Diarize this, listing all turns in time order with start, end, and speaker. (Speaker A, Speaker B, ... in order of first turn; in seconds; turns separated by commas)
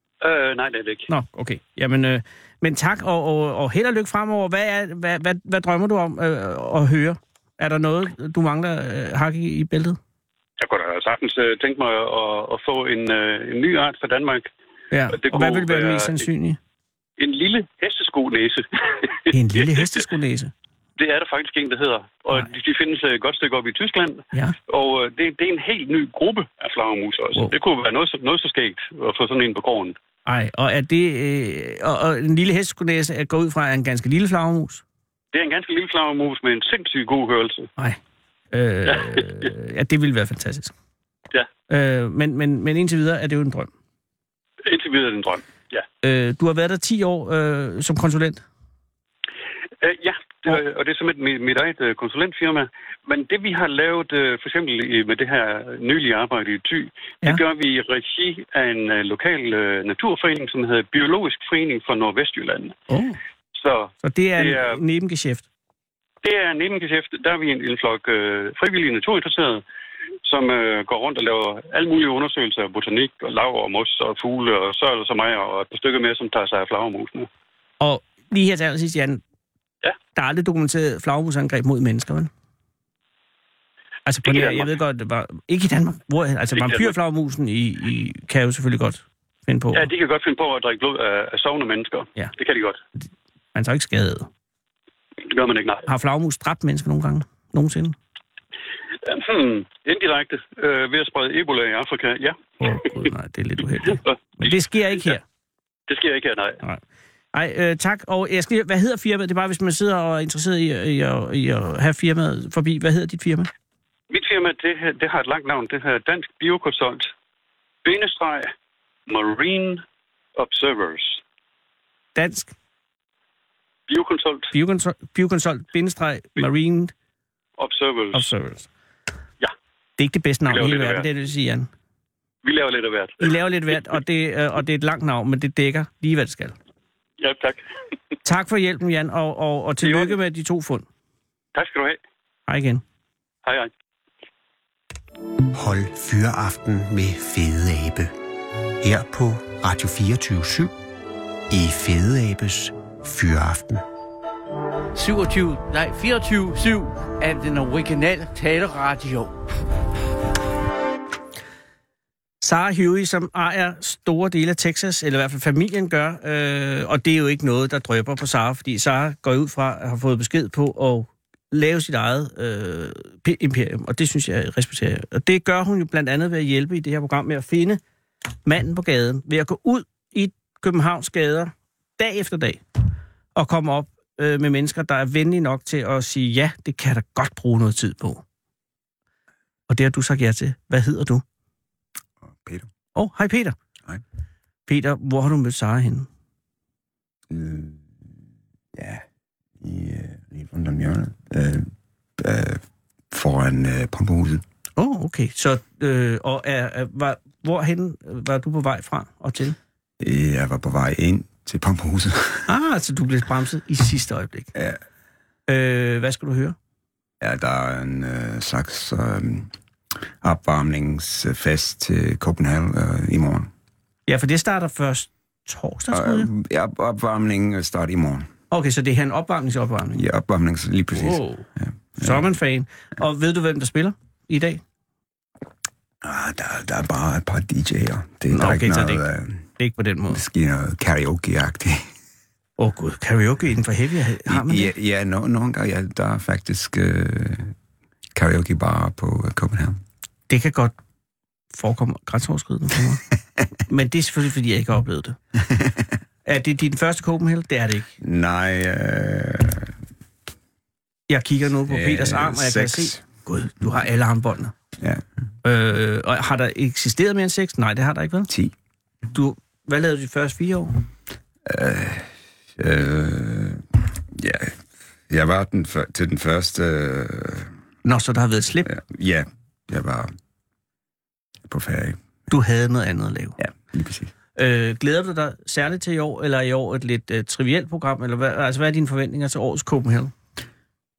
Speaker A: 0.2-1.1, Speaker B: 1.1-10.0, Speaker A: 10.6-14.5, Speaker B: 14.9-16.6, Speaker A: 15.1-16.3, Speaker A: 17.2-19.9, Speaker B: 19.3-20.5, Speaker A: 21.0-30.0, Speaker B: 30.3-34.8, Speaker A: 35.3-37.7, Speaker B: 38.5-40.7, Speaker B: 41.7-43.7, Speaker A: 44.6-45.9, Speaker B: 46.0-48.4, Speaker A: 49.8-62.8, Speaker B: 62.9-63.2, Speaker A: 63.5-64.8, Speaker B: 64.0-65.5, Speaker A: 66.2-69.6, Speaker A: 70.2-77.3, Speaker B: 77.8-79.2, Speaker B: 80.2-82.3, Speaker B: 84.1-89.9, Speaker A: 84.2-84.7, Speaker A: 86.6-86.9, Speaker A: 89.7-92.8, Speaker B: 93.0-94.3, Speaker A: 95.2-95.9, Speaker B: 95.9-98.0, Speaker A: 99.1-102.9, Speaker B: 102.6-105.2, Speaker A: 104.1-104.5, Speaker A: 105.9-106.6, Speaker B: 107.3-113.5, Speaker A: 114.1-117.1, Speaker A: 117.8-118.5, Speaker A: 119.1-119.8, Speaker A: 120.4-121.2, Speaker B: 122.2-122.5, Speaker A: 123.9-124.5, Speaker B: 124.5-126.9, Speaker A: 127.6-128.3, Speaker B: 128.1-128.7, Speaker B: 130.0-131.7, Speaker A: 130.5-131.1, Speaker A: 132.4-133.3, Speaker B: 133.2-136.6, Speaker A: 137.2-137.6, Speaker B: 138.2-140.9, Speaker A: 139.8-140.2, Speaker A: 141.6-142.0, Speaker B: 142.5-142.8, Speaker A: 143.4-143.7, Speaker C: 145.5-148.1, Speaker C: 148.8-150.7, Speaker C: 151.5-153.8, Speaker D: 154.9-159.4, Speaker B: 162.4-177.8, Speaker B: 178.4-182.6, Speaker B: 183.3-188.2, Speaker B: 189.7-191.2, Speaker E: 192.3-192.7, Speaker B: 192.9-193.6, Speaker B: 194.7-196.1, Speaker E: 197.3-198.0, Speaker E: 198.7-199.1, Speaker E: 199.6-204.4, Speaker B: 204.8-209.6, Speaker E: 210.0-212.5, Speaker B: 212.5-214.5, Speaker E: 214.6-214.8, Speaker B: 215.5-216.6, Speaker E: 217.2-219.5, Speaker E: 220.2-223.5, Speaker B: 224.1-226.3, Speaker E: 225.9-228.3, Speaker B: 228.5-230.0, Speaker E: 230.0-232.3, Speaker B: 230.9-231.5, Speaker B: 232.0-234.6, Speaker E: 236.0-239.5, Speaker B: 238.3-239.1, Speaker B: 239.6-240.2, Speaker E: 240.1-241.9, Speaker B: 242.6-244.7, Speaker E: 244.3-247.6, Speaker E: 248.1-249.8, Speaker B: 250.3-250.7, Speaker B: 251.5-253.0, Speaker B: 253.7-255.2, Speaker E: 255.5-255.9, Speaker B: 256.2-257.9, Speaker E: 258.0-259.8, Speaker B: 261.1-264.5, Speaker E: 261.7-263.0, Speaker E: 264.8-265.0, Speaker B: 265.4-268.3, Speaker E: 268.3-268.6, Speaker B: 269.1-270.8, Speaker E: 271.4-277.6, Speaker B: 277.8-278.7, Speaker E: 278.6-280.1, Speaker E: 281.5-282.0, Speaker B: 282.3-283.4, Speaker E: 283.4-284.1, Speaker B: 284.4-290.1